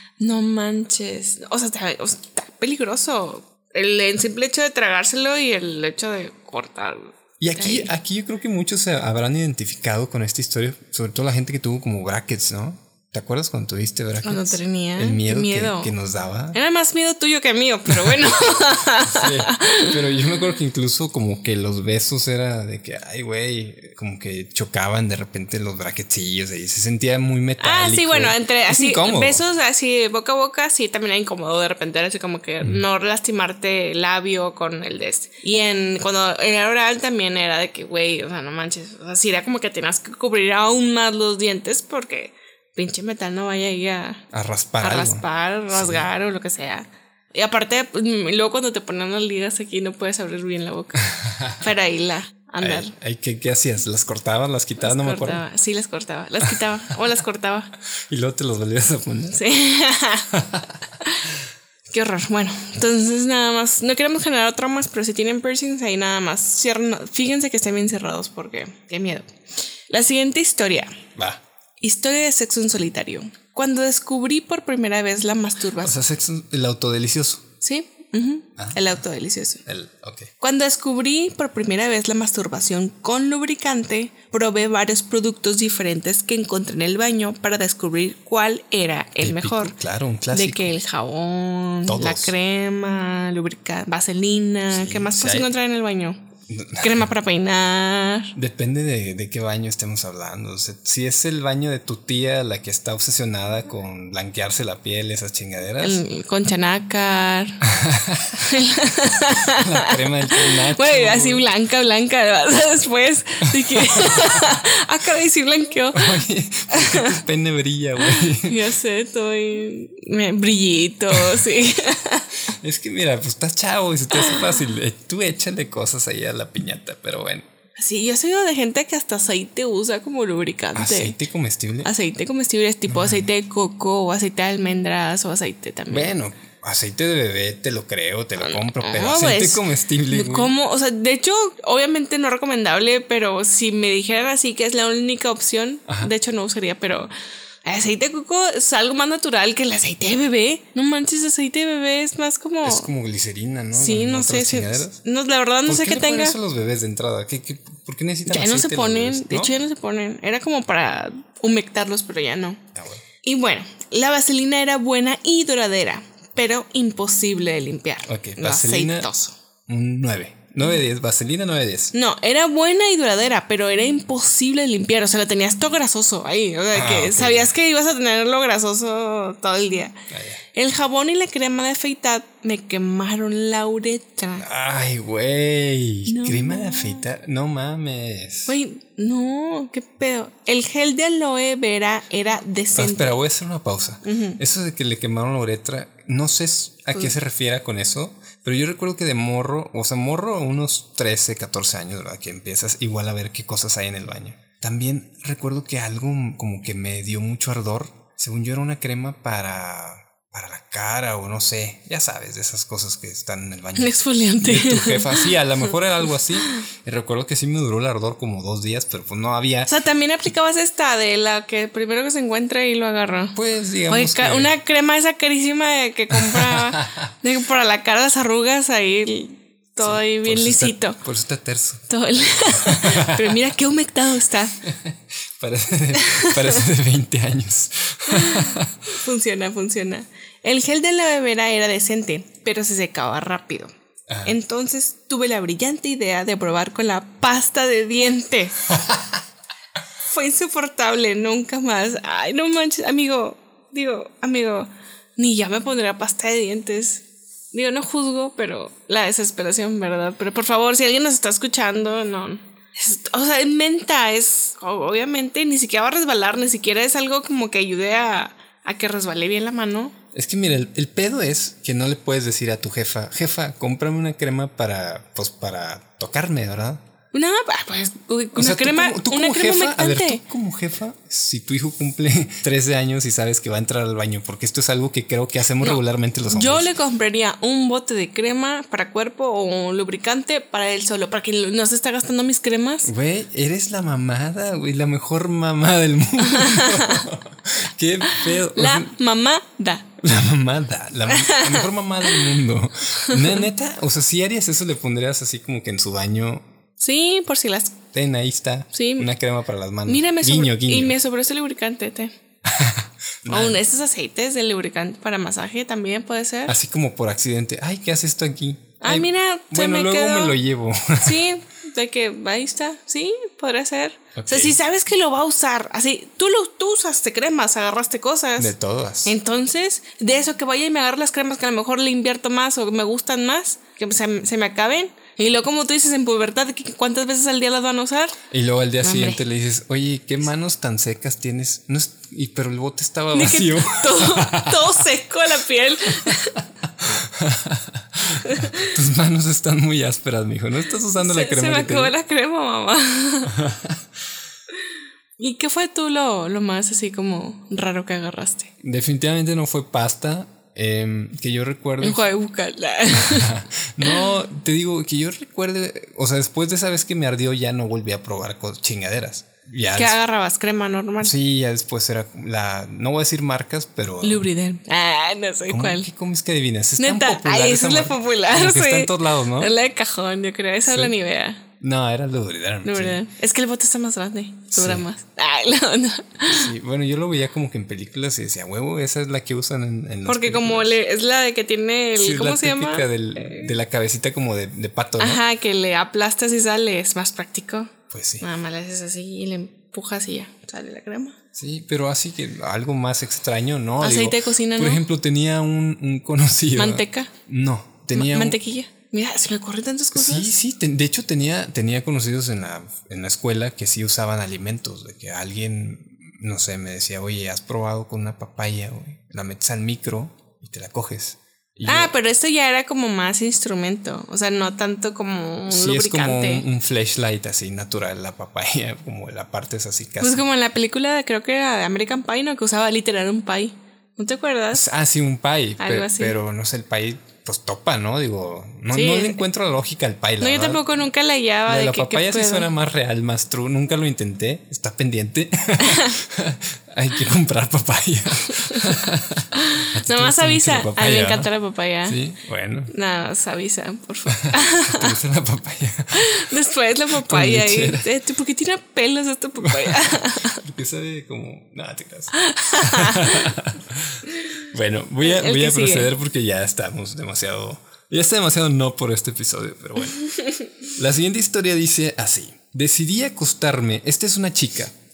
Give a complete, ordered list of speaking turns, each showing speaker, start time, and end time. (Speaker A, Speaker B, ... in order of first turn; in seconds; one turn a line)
Speaker A: 0.2-7.9
Speaker B: 7.4-16.6
Speaker A: 14.2-15.9
Speaker A: 16.5-20.0
Speaker B: 17.9-18.4
Speaker B: 18.9-29.4
Speaker A: 27.6-44.3
Speaker B: 44.3-46.1
Speaker A: 44.8-52.9
Speaker B: 51.1-51.6
Speaker B: 52.6-55.4
Speaker A: 54.8-57.7
Speaker B: 58.1-59.5
Speaker A: 59.3-60.3
Speaker B: 60.3-60.8
Speaker A: 61.0-61.3
Speaker A: 61.9-69.3
Speaker A: 69.9-71.0
Speaker B: 71.2-71.4
Speaker A: 71.8-76.0
Speaker B: 75.8-77.5
Speaker A: 77.6-79.6
Speaker B: 78.6-79.0
Speaker B: 79.7-80.3
Speaker A: 80.4-89.7
Speaker B: 89.2-90.7
Speaker A: 90.3-96.2
Speaker B: 91.9-92.3
Speaker B: 94.7-95.5
Speaker B: 96.5-97.1
Speaker A: 96.8-98.3
Speaker B: 98.3-106.0
Speaker A: 105.8-107.6
Speaker B: 107.7-108.4
Speaker A: 108.4-116.2
Speaker B: 109.4-111.5
Speaker B: 113.5-114.5
Speaker B: 115.9-118.7
Speaker A: 116.7-117.2
Speaker A: 118.0-122.3
Speaker B: 121.1-121.5
Speaker B: 122.5-127.5
Speaker A: 124.1-124.5
Speaker A: 127.8-131.2
Speaker B: 130.8-131.9
Speaker A: 131.8-136.1
Speaker B: 132.9-133.2
Speaker B: 135.9-140.5
Speaker A: 138.4-147.1
Speaker A: 147.7-152.9
Speaker B: 152.6-155.0
Speaker A: 153.8-156.4
Speaker B: 155.7-159.5
Speaker A: 158.3-162.6
Speaker B: 162.8-163.0
Speaker A: 163.2-169.3
Speaker B: 168.1-169.1
Speaker B: 169.7-171.9
Speaker A: 171.9-180.0
Speaker B: 176.7-177.5
Speaker B: 180.1-180.4
Speaker A: 180.5-184.5
Speaker B: 184.4-188.6
Speaker A: 186.1-187.1
Speaker A: 188.5-193.2
Speaker B: 192.8-219.7
Speaker A: 194.1-194.4
Speaker A: 213.8-215.3
Speaker A: 219.7-223.4
Speaker B: 223.3-224.6
Speaker A: 223.9-231.0
Speaker B: 226.1-227.1
Speaker B: 229.8-231.9
Speaker A: 231.9-234.6
Speaker B: 232.5-233.4
Speaker B: 234.6-238.8
Speaker A: 235.9-236.6
Speaker A: 238.1-243.7
Speaker B: 244.1-244.3
Speaker A: 244.2-248.7
Speaker B: 248.7-249.2
Speaker A: 250.1-269.9
Speaker B: 270.1-276.8
Speaker A: 277.1-280.2
Speaker B: 278.4-286.7
Speaker A: 285.6-292.9
Speaker B: 292.8-298.9
Speaker A: 296.4-297.0
Speaker A: 298.1-299.9
Speaker B: 300.0-306.4
Speaker A: 301.1-302.2
Speaker A: 303.0-303.4
Speaker A: 306.8-307.8
Speaker B: 307.9-310.9
Speaker A: 308.7-309.1
Speaker A: 309.9-312.1
Speaker B: 312.4-313.6
Speaker A: 313.3-316.6
Speaker B: 316.5-321.3
Speaker A: 318.8-320.4
Speaker A: 321.0-328.5
Speaker B: 324.2-324.6
Speaker B: 328.4-329.1
Speaker A: 329.1-338.2
Speaker B: 338.3-344.9
Speaker A: 338.8-339.2
Speaker A: 343.1-346.4
Speaker B: 346.0-351.9
Speaker A: 348.2-348.7
Speaker A: 351.0-353.4
Speaker B: 353.3-353.8
Speaker A: 355.2-358.5
Speaker B: 358.6-362.1
Speaker A: 361.8-364.1
Speaker B: 362.9-370.0
Speaker A: 369.8-371.1
Speaker B: 371.0-374.3
Speaker A: 374.0-375.9
Speaker B: 375.5-379.5
Speaker A: 376.8-381.4
Speaker B: 380.7-380.9
Speaker B: 381.6-383.0
Speaker A: 382.6-386.5
Speaker B: 384.5-384.9
Speaker B: 386.3-390.8
Speaker A: 390.1-393.5
Speaker B: 392.0-395.2
Speaker A: 395.0-401.2
Speaker B: 397.9-398.3
Speaker B: 401.4-408.4
Speaker A: 403.8-404.8
Speaker A: 406.6-407.1
Speaker A: 407.9-410.3
Speaker B: 409.9-421.9
Speaker A: 421.6-426.4
Speaker B: 425.5-430.2
Speaker A: 430.0-434.7
Speaker B: 434.5-440.8
Speaker A: 435.6-436.2
Speaker A: 438.7-439.2
Speaker A: 440.2-442.5
Speaker B: 441.5-451.3
Speaker A: 445.6-446.0
Speaker A: 449.4-452.0
Speaker B: 451.9-452.7
Speaker A: 452.7-454.9
Speaker B: 454.1-456.1
Speaker A: 455.9-460.4
Speaker B: 457.0-457.9
Speaker B: 459.4-470.1
Speaker A: 462.1-463.3
Speaker A: 465.0-465.9
Speaker B: 470.7-474.7